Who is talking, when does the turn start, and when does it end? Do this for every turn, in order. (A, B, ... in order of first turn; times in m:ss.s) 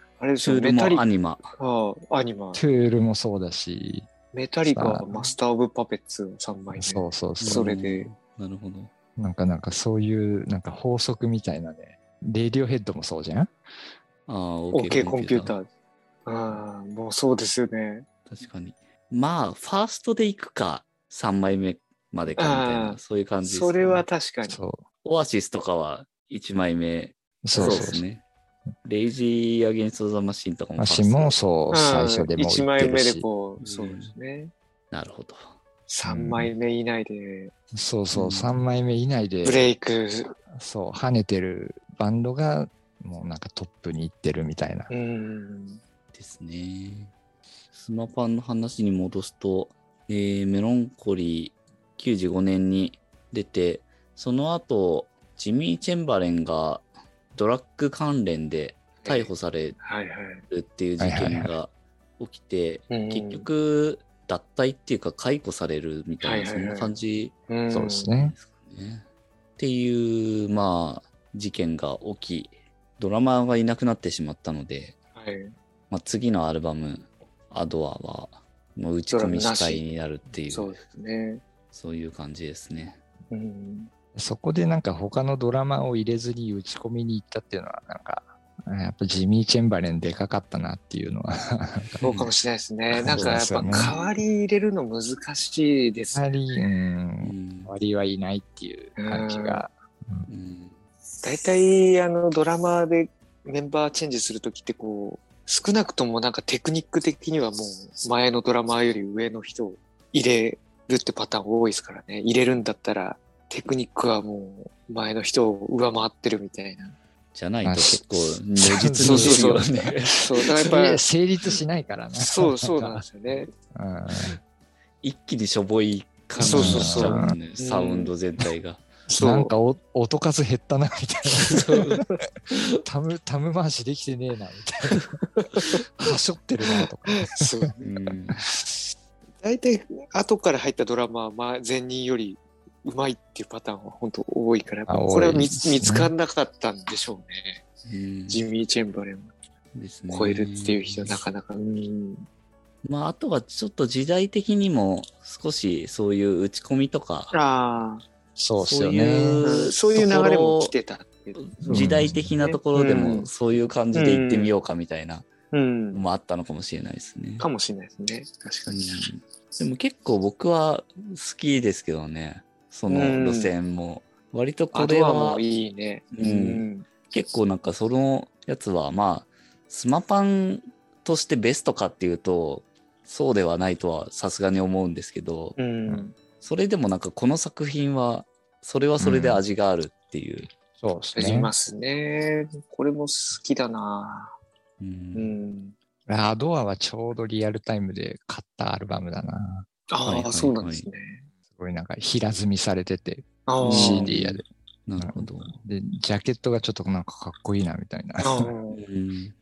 0:00.2-0:01.0 A
0:00.4-0:01.5 B
0:01.6-0:02.6 A
0:02.6-0:04.1 C
0:04.3-0:08.1 A
0:04.7-0:05.4 C
0:06.8-0:07.7 C
0:07.4-0:08.9 B
0:09.2-0:13.5 C
0:14.3-0:15.6 B
0:14.7-0:15.7 A
0:16.3-0:18.1 A
0:18.3-0:24.1 B
0:22.4-0:24.6 A
0:24.5-0:24.8 C
0:25.0-0:28.2 B
0:27.4-0:28.0 C
0:27.6-0:27.9 A
0:28.8-0:31.4 B
0:30.8-0:33.3 C
0:31.7-0:34.5 A
0:33.6-0:34.1 B
0:34.9-0:35.5 B
0:35.9-0:37.5 A
0:36.0-0:36.5 C
0:37.7-0:39.7 C
0:38.1-0:38.6 B
0:39.4-0:40.4 A
0:40.5-0:44.9 C
0:44.9-0:45.8 A
0:46.1-0:47.1 B
0:47.7-0:59.8 B
0:59.0-1:00.5 A
1:00.5-1:07.3 B
1:01.0-1:01.5 C
1:02.9-1:03.5 A
1:06.2-1:07.0 A
1:07.5-1:08.1 A
1:07.7-1:08.4 C
1:08.2-1:09.1 B
1:09.6-1:15.0 B
1:15.2-1:15.5 A
1:15.9-1:20.8 B
1:19.1-1:19.8 A
1:20.5-1:21.4 A
1:21.7-1:23.0 B
1:23.3-1:23.9 A
1:24.2-1:32.0 C
1:32.0-1:36.4 A
1:32.0-1:32.3 B
1:32.9-1:33.9 C
1:33.1-1:34.1 B
1:36.2-1:40.3 C
1:37.2-1:37.7 B
1:39.0-1:39.6 A
1:40.3-1:40.8 B
1:41.2-1:57.0 A
1:57.3-2:00.3 B
1:57.6-1:59.9 C
1:59.0-2:01.0 A
2:00.6-2:03.1 C
2:02.2-2:03.5 A
2:03.7-2:04.4 C
2:05.0-2:08.8 B
2:06.4-2:07.4 C
2:06.4-2:08.1 A
2:09.1-2:09.5 A
2:09.2-2:11.8 C
2:11.4-2:12.8 B
2:12.8-2:15.1 C
2:15.2-2:15.8 A
2:16.0-2:17.7 C
2:16.7-2:18.1 A
2:17.8-2:18.4 B
2:18.4-2:18.9 C
2:19.4-2:27.6 A
2:24.9-2:26.1 C
2:27.9-2:28.5 B
2:28.3-2:29.3 A
2:29.7-2:31.2 B
2:30.1-2:32.3 A
2:32.8-2:37.4 B
2:37.3-2:38.0 A
2:38.4-2:39.5 C
2:38.6-2:40.8 B
2:39.4-2:43.3 A
2:41.4-2:45.3 B
2:41.7-2:42.4 C
2:43.9-2:44.5 A
2:45.5-2:46.0 A
2:45.9-2:47.5 B
2:47.4-2:49.1 A
2:48.7-2:55.4 B
2:52.9-2:53.5 A
2:54.7-2:56.9 A
2:56.1-3:05.6 B
3:05.6-3:06.2 A
3:06.4-3:10.5 B
3:09.0-3:09.4 C
3:10.8-3:11.5 C
3:11.2-3:14.4 A
3:14.8-3:15.4 B
3:15.2-3:15.8 A
3:16.1-3:19.7 C
3:19.9-3:21.3 A
3:20.0-3:20.9 B
3:21.5-3:24.4 C
3:23.5-3:24.1 A
3:23.6-3:25.6 B
3:25.0-3:28.5 C
3:28.2-3:28.8 A
3:28.7-3:29.4 B